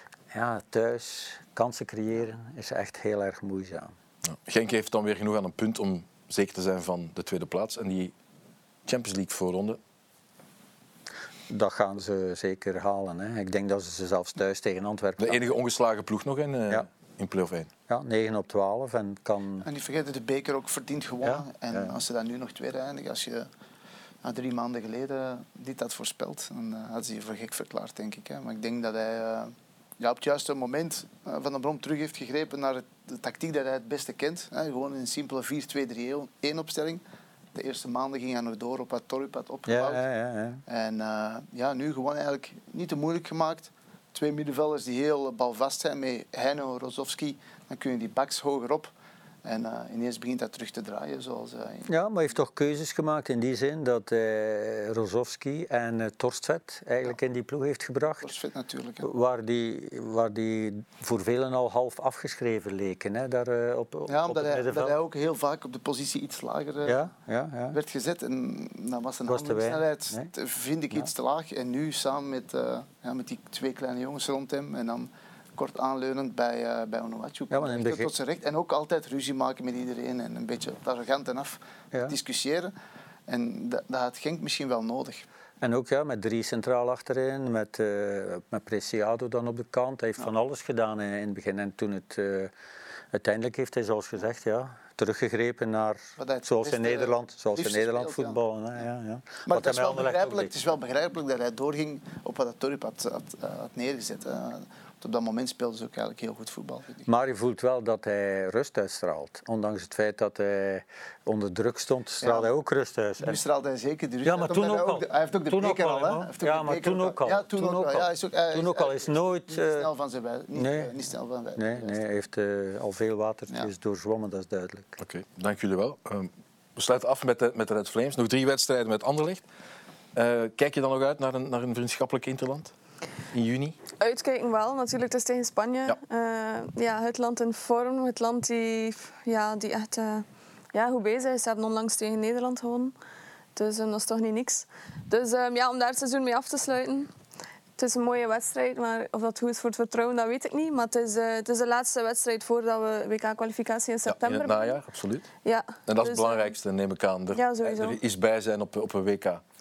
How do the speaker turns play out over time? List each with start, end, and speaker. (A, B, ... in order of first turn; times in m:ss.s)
0:00.3-0:03.9 A
0:04.2-0:08.1 B
0:08.8-0:09.8 B
0:11.5-0:15.4 A
0:15.2-0:17.7 B
0:17.9-0:19.6 A
0:19.6-0:23.5 C
0:21.2-0:22.0 A
0:24.2-0:37.0 C
0:37.5-0:40.0 C
0:39.7-0:40.6 A
0:40.7-0:48.9 C
0:49.4-0:51.9 C
0:51.9-0:58.3 A
0:58.2-0:59.1 C
0:59.0-1:05.0 A
1:04.1-1:07.0 C
1:06.8-1:07.8 A
1:07.7-1:22.7 C
1:09.3-1:10.3 A
1:17.5-1:18.1 A
1:23.3-1:25.2 C
1:25.6-1:32.5 A
1:33.1-1:40.5 A
1:36.2-1:38.4 C
1:39.4-1:47.1 C
1:47.1-1:53.4 A
1:52.2-1:52.5 C
1:53.2-2:02.0 C
1:54.2-1:59.9 A
2:00.5-2:00.9 A
2:01.6-2:04.9 A
2:05.0-2:09.4 B
2:10.1-2:12.7 B
2:13.3-2:13.8 B
2:14.0-2:22.9 D
2:23.5-2:27.1 D
2:27.8-2:34.8 D
2:34.1-2:35.3 B
2:35.4-2:36.5 D
2:35.9-2:39.4 B
2:37.3-2:38.0 D